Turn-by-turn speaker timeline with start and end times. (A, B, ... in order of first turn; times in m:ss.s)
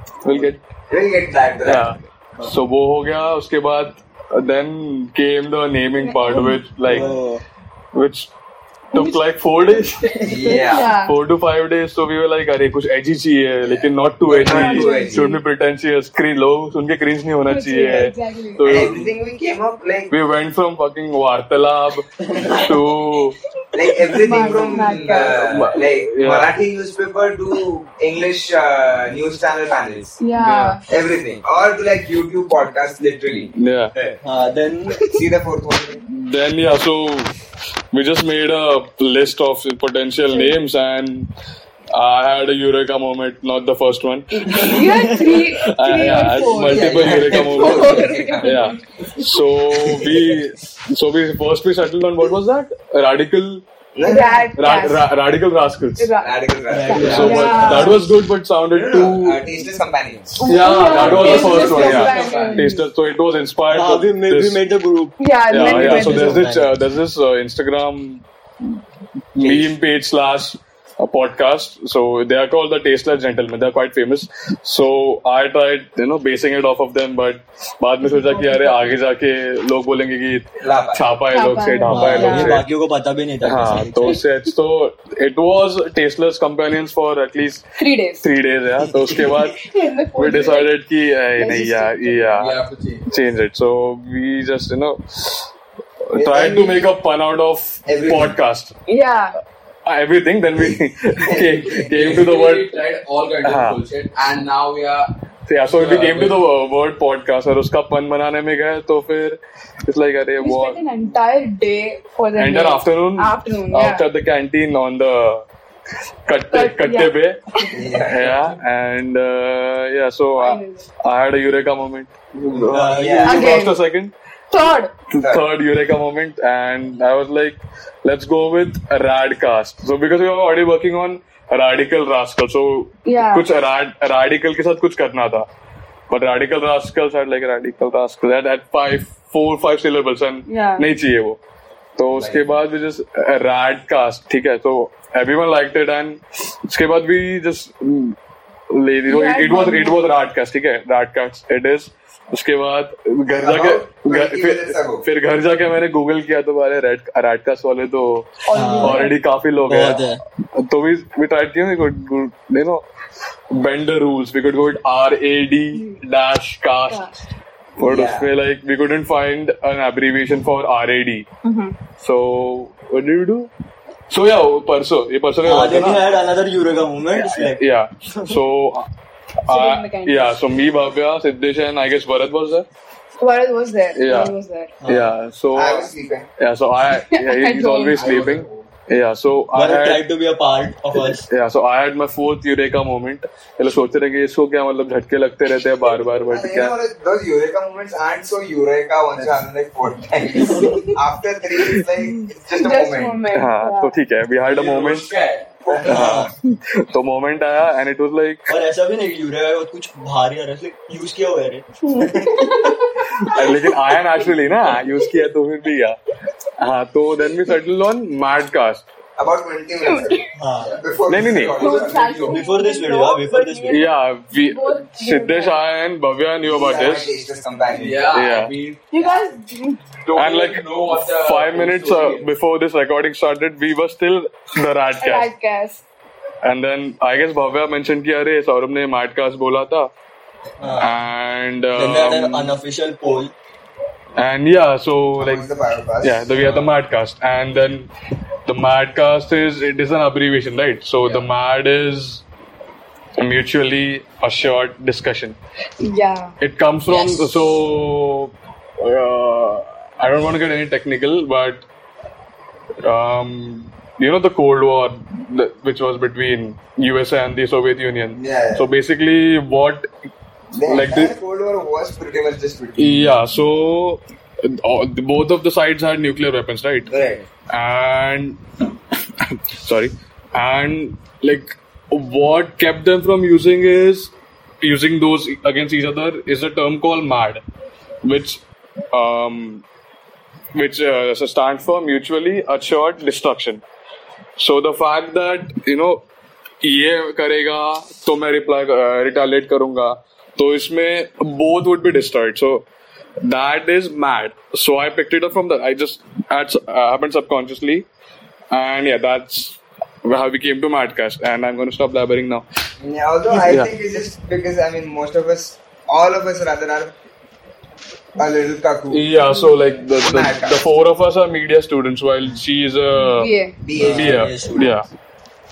0:00.2-0:00.6 A
0:00.9-0:02.0 B
0:01.6-0:07.1 A
0:06.0-0:07.1 C
0:06.8-0:07.4 D
0:07.9-0:08.3 A
0:08.9-0:19.1 A
0:09.0-0:09.3 C
0:10.2-0:11.0 B
0:10.2-0:11.2 C
0:13.6-0:15.3 B
0:14.4-0:15.4 C
0:17.5-0:18.9 C
0:18.6-0:20.1 B
0:20.1-0:23.4 A
0:23.7-0:30.2 B
0:24.1-0:25.5 C
0:25.1-0:26.6 A
0:30.2-0:30.8 C
0:30.4-0:30.8 A
0:30.9-0:34.2 B
0:33.5-0:33.9 A
0:34.2-0:35.0 D
0:35.0-0:36.0 B
0:36.1-0:37.3 A
0:37.9-0:41.3 A
0:41.9-0:53.6 A
0:44.3-0:48.8 C
0:44.9-0:45.3 D
0:46.5-0:48.8 B
0:49.8-0:50.3 B
0:54.0-0:54.6 B
0:54.0-0:55.1 C
0:54.6-0:56.1 A
0:56.0-0:58.0 C
0:56.2-0:58.0 B
0:56.7-0:57.9 D
0:57.0-0:59.5 A
0:58.7-1:00.4 B
1:00.4-1:02.9 C
1:00.4-1:04.7 A
1:00.9-1:02.7 E
1:01.1-1:01.4 B
1:03.7-1:06.7 D
1:05.2-1:06.5 C
1:05.5-1:08.8 A
1:09.4-1:22.7 A
1:09.4-1:09.7 B
1:18.2-1:18.9 C
1:20.6-1:21.2 B
1:21.3-1:22.6 C
1:21.9-1:24.2 D
1:23.4-1:27.7 A
1:27.8-1:28.2 C
1:28.2-1:32.6 A
1:29.1-1:30.7 C
1:30.3-1:30.6 E
1:31.4-1:32.4 C
1:32.4-1:33.1 E
1:33.1-1:35.5 A
1:36.0-1:38.7 A
1:36.2-1:36.9 B
1:37.9-1:38.4 B
1:38.9-1:39.4 C
1:39.9-1:42.8 A
1:40.6-1:42.3 B
1:41.9-1:45.1 E
1:43.4-1:43.8 A
1:45.5-1:50.8 A
1:45.7-1:46.4 E
1:50.4-1:54.0 C
1:52.4-1:55.4 A
1:56.3-1:57.4 A
1:56.5-1:57.8 C
1:57.7-1:58.6 B
1:58.0-2:04.1 A
2:00.4-2:00.9 C
2:02.6-2:03.7 B
2:02.7-2:03.5 D
2:03.3-2:03.8 C
2:04.5-2:04.9 C
2:05.1-2:15.5 A
2:05.2-2:05.4 B
2:13.0-2:13.5 C
2:16.1-2:21.4 A
2:20.5-2:20.9 C
2:22.0-2:28.2 A
2:22.1-2:22.5 B
2:28.7-2:42.8 A
2:29.1-2:30.0 C
2:33.3-2:35.1 B
2:38.5-2:39.2 C
2:38.5-2:40.2 D
2:43.5-2:47.1 A
2:46.9-2:47.1 C
2:47.8-2:51.3 A
2:47.8-2:48.3 B
2:51.4-2:51.8 C
2:52.0-2:53.5 A
2:54.1-2:56.1 A
2:55.4-2:58.3 D
2:57.2-2:58.9 A
2:59.4-3:02.7 A
2:59.5-3:00.4 C
3:03.2-3:04.7 C
3:04.0-3:10.1 A
3:04.8-3:05.1 D
3:05.5-3:06.3 B
3:06.9-3:08.0 C
3:07.9-3:08.7 E
3:09.5-3:11.2 D
3:11.0-3:16.8 A
3:16.3-3:23.2 B
3:20.4-3:20.9 D
3:22.5-3:24.0 C
3:23.3-3:25.1 A
3:24.4-3:25.9 E
3:25.7-3:26.2 B
3:25.8-3:26.3 D
3:25.8-3:28.5 A
3:28.5-3:31.7 D
3:31.9-3:33.3 C
3:32.0-3:32.4 B
3:33.2-3:36.0 A
3:36.6-3:38.8 A
3:39.2-3:42.2 B
3:39.8-3:40.3 C
3:40.4-3:40.7 D
3:41.1-3:41.8 A
3:41.6-3:42.4 E
3:41.6-3:45.6 C
3:42.2-3:43.9 D
3:43.7-3:47.1 A
3:46.5-3:48.1 B
3:47.7-3:49.2 E
3:48.1-3:48.5 A
3:48.9-3:49.8 C
3:50.0-3:52.3 E
3:50.2-3:55.3 A
3:55.0-3:55.8 C
3:56.4-3:59.9 A
4:00.6-4:01.0 D
4:00.8-4:02.6 A
4:01.7-4:03.3 D
4:04.2-4:05.5 A
4:05.2-4:06.3 B
4:06.0-4:07.9 A
4:08.5-4:12.2 A
4:11.0-4:11.3 E
4:13.2-4:15.4 A
4:15.8-4:16.4 C
4:16.4-4:21.6 A
4:16.9-4:17.4 C
4:22.8-4:29.9 A
4:28.2-4:28.6 B
4:30.5-4:33.2 B
4:30.6-4:31.2 A
4:32.8-4:36.9 A
4:36.9-4:37.3 B
4:37.5-4:38.4 A
4:39.6-4:47.4 A
4:48.0-4:49.6 A
4:50.5-4:53.6 A
4:54.4-4:56.0 A
4:56.6-5:02.7 A
5:03.2-5:07.9 A
5:08.5-5:12.4 A
5:12.8-5:17.0 B
5:13.4-5:13.7 A
5:18.2-5:19.1 B
5:18.9-5:24.9 A
5:20.0-5:20.6 B
5:23.0-5:23.6 C
5:23.6-5:24.8 B
5:23.8-5:24.7 D